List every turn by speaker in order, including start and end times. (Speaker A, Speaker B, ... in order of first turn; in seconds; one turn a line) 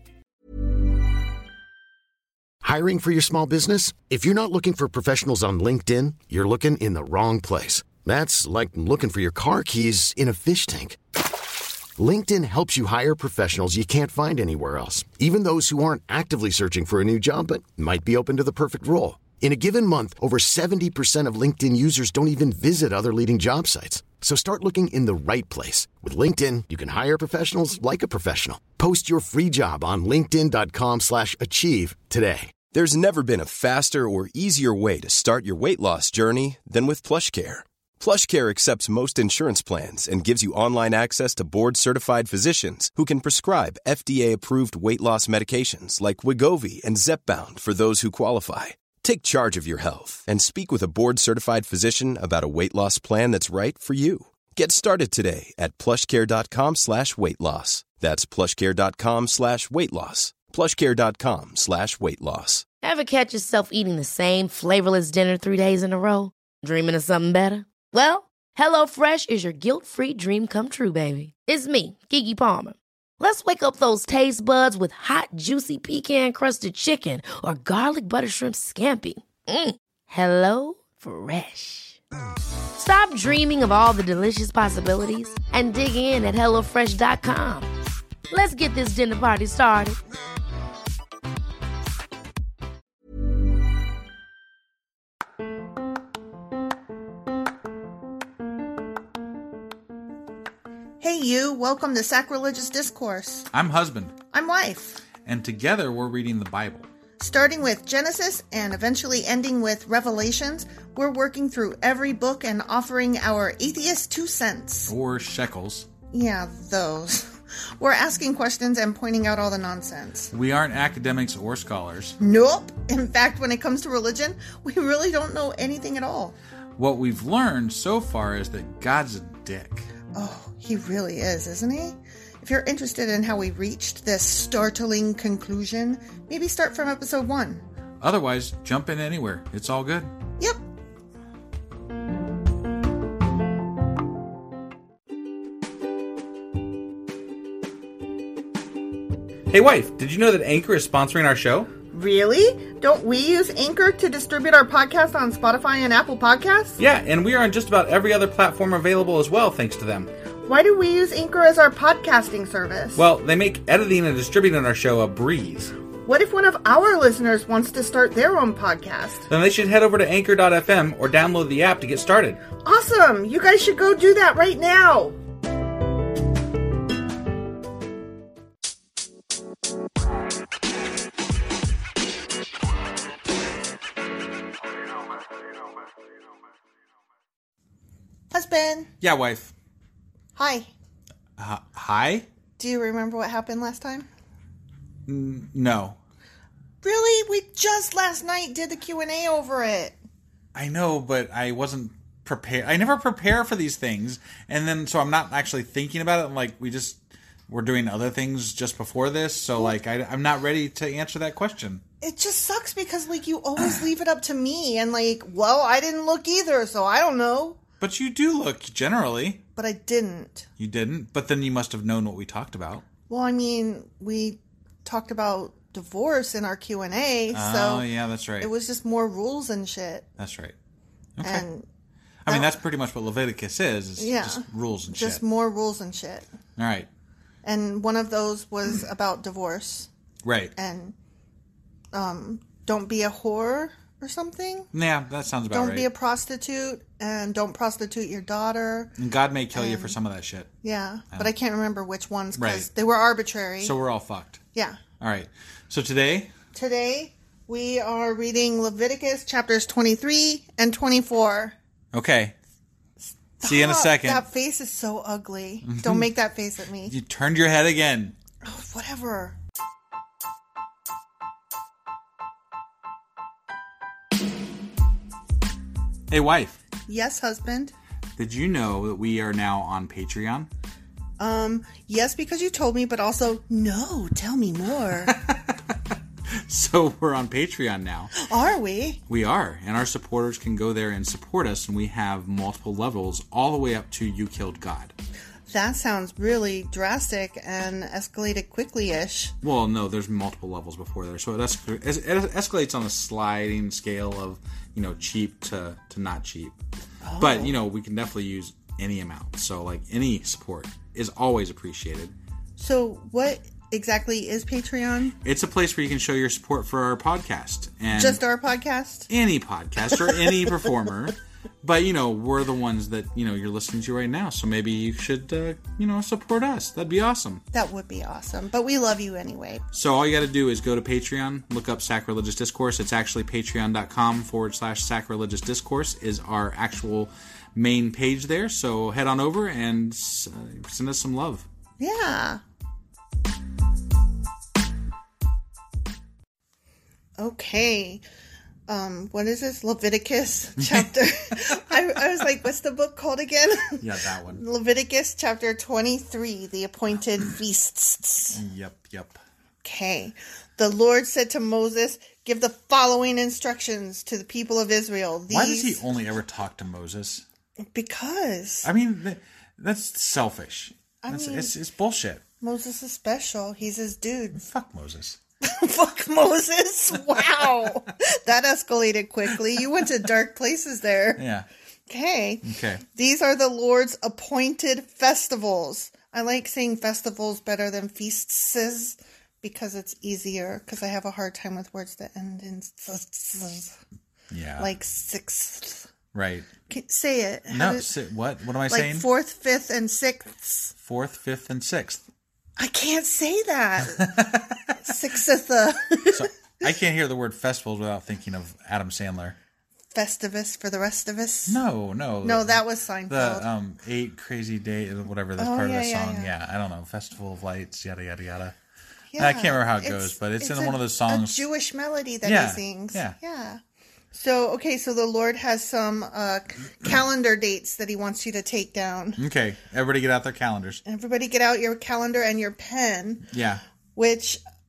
Speaker A: 2.6-11.0
Speaker A: 12.0-32.5
Speaker B: 32.7-62.6
Speaker C: 62.8-82.0
Speaker C: 82.8-87.7
Speaker C: 88.3-90.0
Speaker D: 101.0-103.5
Speaker E: 103.5-104.2
Speaker D: 104.3-105.0
Speaker E: 105.2-106.9
Speaker D: 107.2-114.9
Speaker E: 114.9-115.9
Speaker D: 116.1-120.3
Speaker E: 120.3-122.2
Speaker D: 122.2-126.3
Speaker E: 126.8-129.9
Speaker D: 130.1-137.6
Speaker E: 138.0-140.1
Speaker E: 149.5-151.7
Speaker D: 151.9-156.8
Speaker E: 156.8-160.1
Speaker D: 160.4-163.0
Speaker E: 162.9-165.7
Speaker D: 166.1-169.3
Speaker E: 169.3-172.4
Speaker D: 172.6-175.2
Speaker D: 188.3-188.9
Speaker E: 189.0-189.5
Speaker D: 190.3-190.7
Speaker E: 191.4-192.3
Speaker D: 192.6-194.1
Speaker E: 195.1-196.0
Speaker D: 196.8-200.0
Speaker E: 200.5-211.8
Speaker D: 212.0-217.6
Speaker E: 217.8-219.4
Speaker D: 219.6-220.5
Speaker E: 220.6-222.8
Speaker D: 223.1-227.8
Speaker E: 227.3-228.5
Speaker D: 228.4-230.1
Speaker E: 230.2-230.5
Speaker E: 231.2-231.4
Speaker D: 231.2-231.7
Speaker E: 232.2-235.2
Speaker D: 232.3-232.6
Speaker D: 234.0-236.3
Speaker E: 236.6-236.9
Speaker D: 237.4-239.9
Speaker E: 240.2-240.5
Speaker D: 240.6-240.9
Speaker D: 241.9-244.7
Speaker E: 244.7-245.9
Speaker D: 245.5-248.9
Speaker E: 249.0-250.5
Speaker D: 249.5-249.9
Speaker D: 250.6-253.7
Speaker E: 252.3-252.7
Speaker E: 253.6-254.4
Speaker D: 254.5-254.8
Speaker E: 255.0-256.3
Speaker D: 256.5-261.6
Speaker E: 261.9-262.4
Speaker D: 263.4-266.9
Speaker E: 263.4-264.2
Speaker E: 265.6-266.1
Speaker E: 266.9-268.1
Speaker D: 268.4-269.4
Speaker E: 276.1-276.6
Speaker D: 276.9-277.7
Speaker E: 278.2-280.5
Speaker D: 281.2-285.2
Speaker E: 285.1-285.6
Speaker E: 286.4-288.1
Speaker D: 288.2-289.0
Speaker E: 289.1-294.9
Speaker D: 295.5-299.3
Speaker E: 299.4-306.6
Speaker D: 307.0-307.5
Speaker E: 307.2-312.1
Speaker D: 312.6-315.1
Speaker E: 315.2-318.2
Speaker D: 317.9-319.1
Speaker E: 319.1-327.4
Speaker D: 327.5-329.6
Speaker E: 329.7-341.4
Speaker D: 341.8-342.4
Speaker D: 347.2-348.0
Speaker D: 348.7-358.4
Speaker E: 350.6-350.9
Speaker E: 353.8-354.4
Speaker E: 358.3-359.2
Speaker D: 359.6-365.8
Speaker E: 365.3-367.2
Speaker D: 367.7-368.7
Speaker E: 368.6-372.2
Speaker D: 371.0-371.5
Speaker D: 372.4-374.4
Speaker E: 374.4-375.2
Speaker D: 375.4-381.2
Speaker E: 381.2-381.4
Speaker D: 381.9-393.8
Speaker E: 382.4-382.8
Speaker E: 394.3-394.7
Speaker D: 394.6-395.9
Speaker E: 396.1-396.5
Speaker D: 396.7-397.9
Speaker E: 397.5-399.1
Speaker D: 398.7-400.7
Speaker E: 400.8-402.0
Speaker D: 402.6-406.3
Speaker E: 403.9-404.7
Speaker E: 406.1-409.4
Speaker D: 409.9-411.6
Speaker E: 411.5-418.5
Speaker D: 412.2-413.5
Speaker D: 415.4-416.3
Speaker D: 419.1-423.6
Speaker E: 419.2-421.4
Speaker E: 422.2-423.1
Speaker D: 424.1-429.2
Speaker E: 429.2-430.8
Speaker D: 430.8-433.2
Speaker E: 433.3-433.6
Speaker D: 433.9-434.4